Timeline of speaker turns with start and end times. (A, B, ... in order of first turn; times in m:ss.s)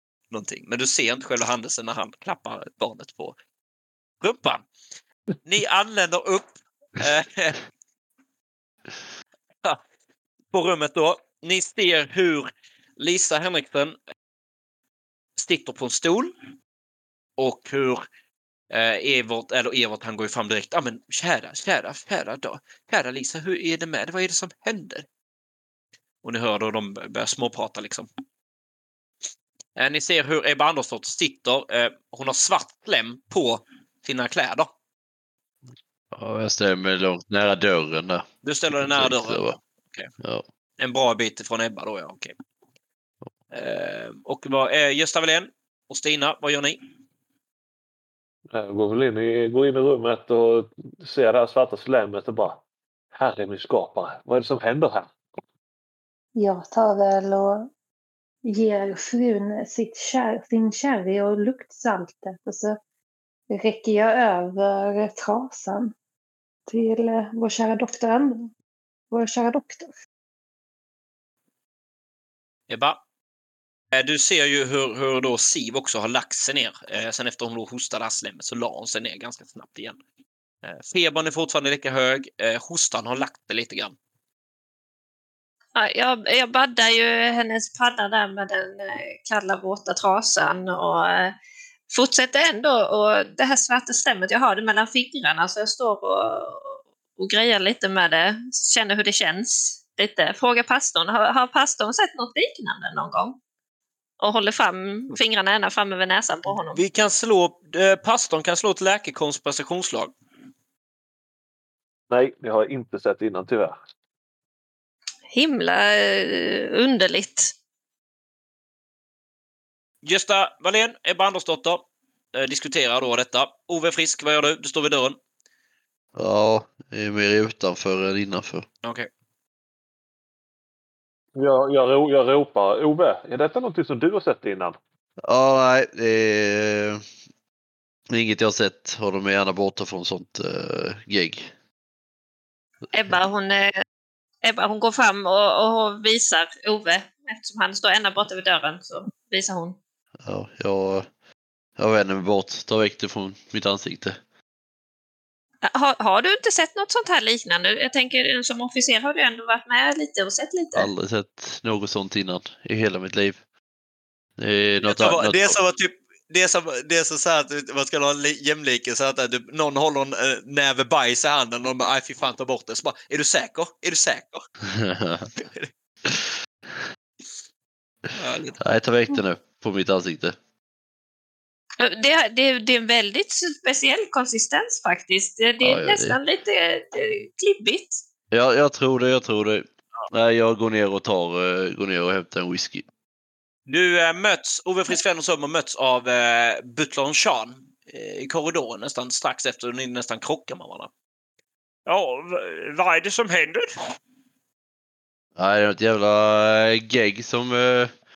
0:00.3-0:03.4 A
0:04.2-0:04.6 A
0:05.4-0:07.6 A
0:10.5-0:14.0 A
0:15.4-0:16.4 A
0:17.4-0:18.0 A
0:18.7-0:25.1 A
0:26.2-0:28.1 A
0:29.8-0:34.7 A
0:36.1-0:39.6 B
0:38.4-0:40.1 A
0:40.8-0:42.4 A
0:43.5-0:46.8 A
0:48.5-0:52.6 C
0:53.1-0:55.1 C
0:56.4-0:57.7 D
0:58.4-1:02.8 D
1:03.5-1:05.9 D
1:06.7-1:08.5 D
1:09.1-1:09.9 D
1:12.7-1:13.0 A
1:13.9-1:20.0 A
1:20.6-1:24.0 A
1:25.8-1:31.4 E
1:31.9-1:43.4 E
1:44.2-1:46.8 E
1:46.7-1:50.1 A
1:52.1-1:53.8 C
1:55.3-1:57.5 E
2:00.0-2:05.2 A
2:06.2-2:08.7 B
2:08.8-2:09.1 A
2:11.4-2:14.8 C
2:15.2-2:17.0 B
2:18.1-2:21.5 B
2:22.9-2:23.8 E
2:24.4-2:29.8 E
2:30.2-2:31.1 B
2:31.8-2:34.2 B
2:35.6-2:40.9 E
2:40.8-2:43.4 B
2:44.4-2:45.6 B
2:44.8-2:54.4 A
2:54.7-2:55.3 B
2:55.4-2:55.7 A
2:58.2-2:58.6 A
2:58.6-3:00.4 B
3:01.8-3:08.0 E
3:05.6-3:06.2 B
3:08.3-3:12.9 B
3:13.7-3:20.9 A
3:21.9-3:23.7 A
3:25.4-3:27.9 B